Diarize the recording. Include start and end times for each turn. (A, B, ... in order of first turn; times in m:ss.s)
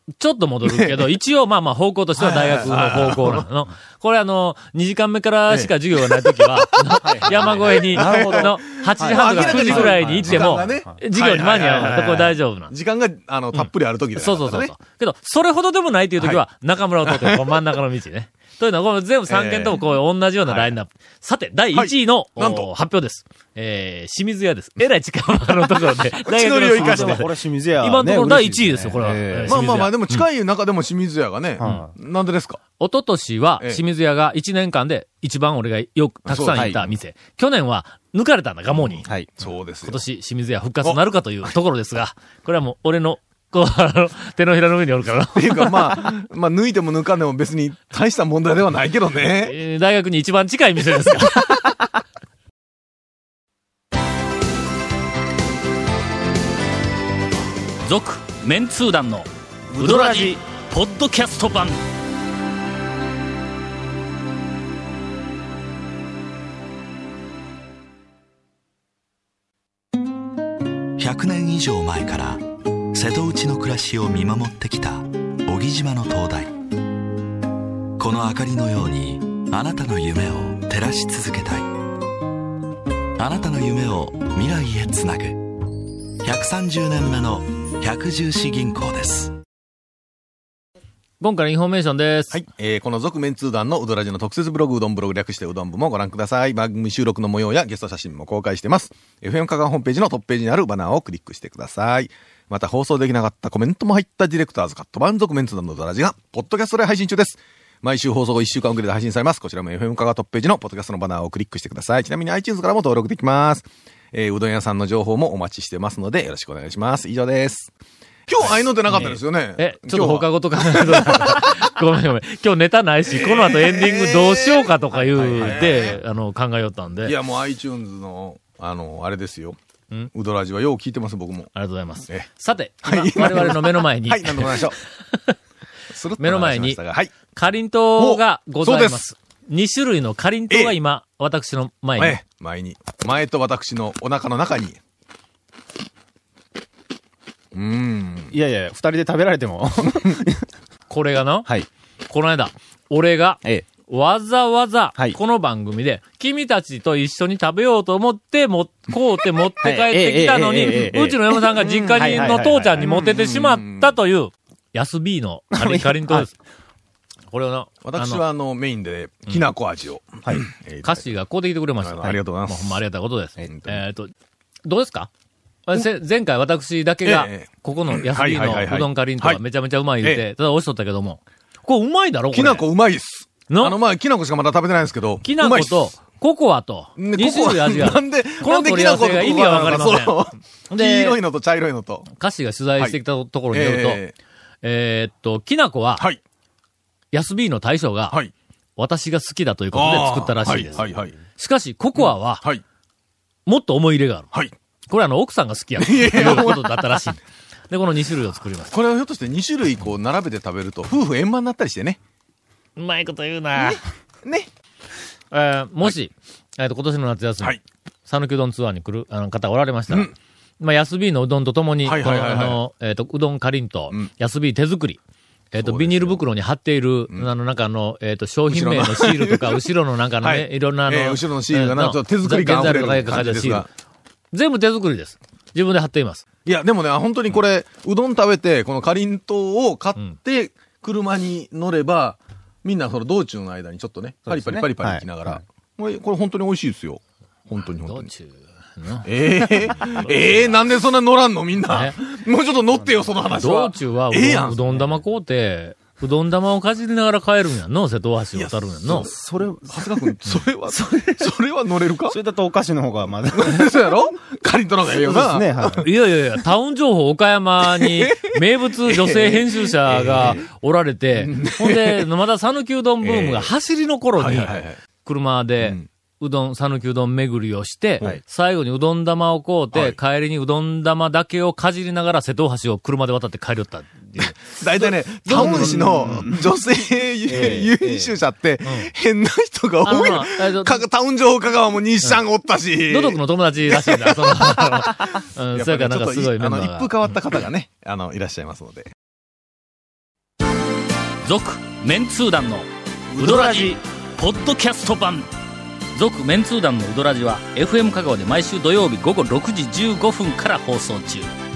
0:00.2-0:12.7 A
0:00.6-0:01.1 B
0:02.2-0:03.5 B
0:05.5-0:14.7 B
0:07.0-0:10.9 C
0:13.5-0:30.3 A
0:16.2-0:16.4 B
0:17.0-0:17.4 B
0:19.3-0:19.8 B
0:20.4-0:20.8 B
0:21.7-0:22.7 B
0:26.1-0:27.3 B
0:26.7-0:29.6 C
0:29.5-0:32.6 B
0:31.6-0:31.9 C
0:32.8-0:39.1 A
0:36.3-0:36.8 B
0:36.5-0:36.8 C
0:38.8-0:40.0 B
0:39.0-0:39.3 C
0:39.8-0:46.0 A
0:45.4-0:49.6 B
0:49.4-0:51.7 A
0:57.9-0:59.2 A
0:58.7-0:59.2 D
0:59.8-1:00.4 C
0:59.8-1:01.6 D
0:59.8-1:01.7 A
1:11.0-1:16.5 E
1:18.0-1:21.7 E
1:23.2-1:25.6 E
1:26.2-1:29.4 E
1:31.2-1:32.4 A
1:32.3-1:57.7 B
1:58.3-2:01.6 B
1:58.4-2:07.2 A
2:03.1-2:06.0 B
2:05.1-2:05.7 C
2:07.0-2:09.6 B
2:10.1-2:11.5 B
2:11.5-2:15.4 A
2:12.8-2:14.8 B
2:15.9-2:17.1 B
2:16.2-2:22.2 A
2:18.0-2:19.0 B
2:20.5-2:20.8 B
2:22.0-2:24.8 B
2:27.5-2:28.3 B
2:28.3-2:30.5 C
2:30.9-2:31.5 A
2:32.1-2:46.3 A
2:39.6-2:43.1 C
2:41.6-2:44.0 B
2:45.5-2:46.3 C
2:47.3-2:48.2 A
2:47.8-2:51.2 B
2:50.8-2:54.1 A
2:51.8-2:52.8 B
2:53.4-2:53.8 B
2:54.6-2:55.1 A
2:55.7-3:02.7 A
2:57.0-2:59.4 B
3:02.3-3:05.8 B
3:03.5-3:03.8 A
3:05.2-3:11.2 A
3:07.0-3:12.1 B
3:12.1-3:14.0 A
3:13.5-3:14.1 B
3:14.6-3:16.1 A
3:17.1-3:18.2 A
3:18.8-3:22.5 A
3:19.7-3:21.2 B
3:22.0-3:22.6 B
3:23.5-3:24.3 A
3:24.9-3:28.8 A
3:25.8-3:26.8 B
3:28.7-3:32.0 B
3:32.8-3:33.8 A
3:33.5-3:34.5 B
3:35.3-3:45.0 A
3:41.8-3:42.6 B
3:45.5-3:53.7 A
3:45.6-3:46.2 B
3:48.5-3:49.6 B
3:50.2-3:53.7 B
3:54.3-3:56.2 A
3:56.5-4:08.1 B
4:04.2-4:05.4 C
4:07.8-4:10.7 A
4:09.0-4:14.6 B
4:11.7-4:12.0 A
4:12.8-4:13.2 C
4:13.3-4:19.1 A
4:14.7-4:15.0 C
4:18.3-4:19.1 B
4:18.9-4:21.1 C
4:19.7-4:22.2 B
4:22.0-4:23.9 C
4:23.3-4:25.9 B
4:24.9-4:25.9 C
4:25.7-4:46.2 A
4:27.6-4:30.4 B
4:31.2-4:32.1 B
4:33.0-4:33.5 B
4:34.2-4:34.8 B
4:35.6-4:35.9 B
4:39.7-4:40.0 B
4:44.4-4:54.9 B
4:45.3-4:46.4 C
4:47.3-4:48.1 C
4:48.6-4:48.9 A
4:49.8-4:50.8 A
4:52.8-4:57.2 A
4:55.6-4:58.9 B
5:01.3-5:02.6 D
5:01.3-5:02.6 A
5:03.2-5:03.7 C
5:03.2-5:05.2 D
5:03.2-5:03.8 A
5:04.3-5:05.2 A
5:06.0-5:11.2 D
5:06.4-5:08.2 A
5:09.7-5:10.7 A